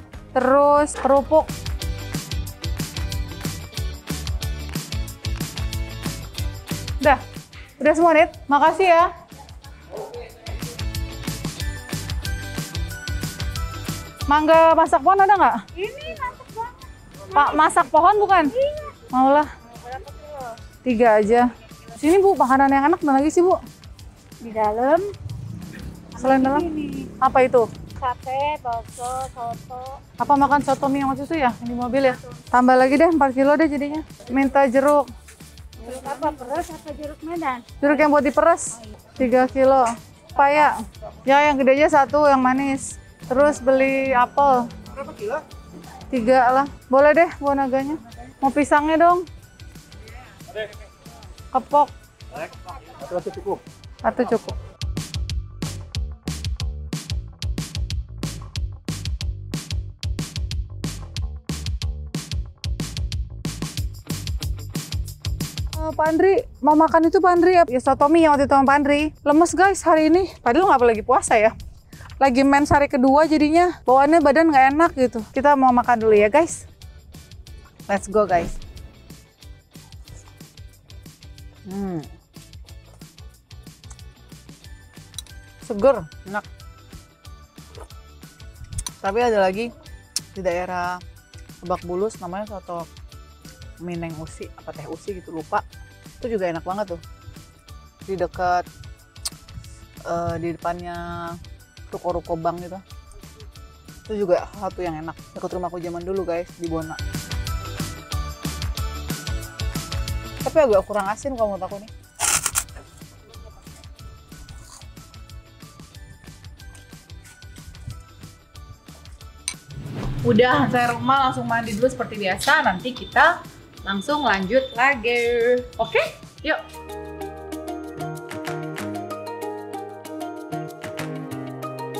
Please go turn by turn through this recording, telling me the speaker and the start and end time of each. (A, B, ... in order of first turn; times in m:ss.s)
0:00.3-0:01.5 A
0:07.8-0:09.1 A
0:14.3-0:15.8 A
0:15.8-0:16.8 B
0:17.3-0:19.5 A
0:18.6-0:19.0 B
0:19.6-0:20.6 B
0:20.8-0:23.6 A
0:24.4-0:25.1 B
0:26.2-0:27.7 A
0:26.2-0:27.0 B
0:28.0-0:30.0 B
0:30.2-0:35.1 A
0:35.8-0:37.8 B
0:35.8-0:36.6 A
0:37.8-0:45.4 A
0:46.1-0:49.2 A
0:51.5-0:51.9 A
0:54.0-0:54.6 A
1:05.7-1:11.6 A
1:12.2-1:16.6 A
1:17.9-1:18.6 A
1:21.7-1:22.1 A
1:25.6-1:26.5 A
1:29.0-1:29.7 A
1:30.4-1:31.0 A
1:31.6-1:32.9 A
1:33.8-1:35.6 A
1:36.2-1:37.0 A
1:38.1-1:38.6 A
1:40.1-1:41.4 A
1:41.9-1:42.8 A
1:44.1-1:47.0 A
1:50.4-1:51.9 A
2:00.2-2:06.6 A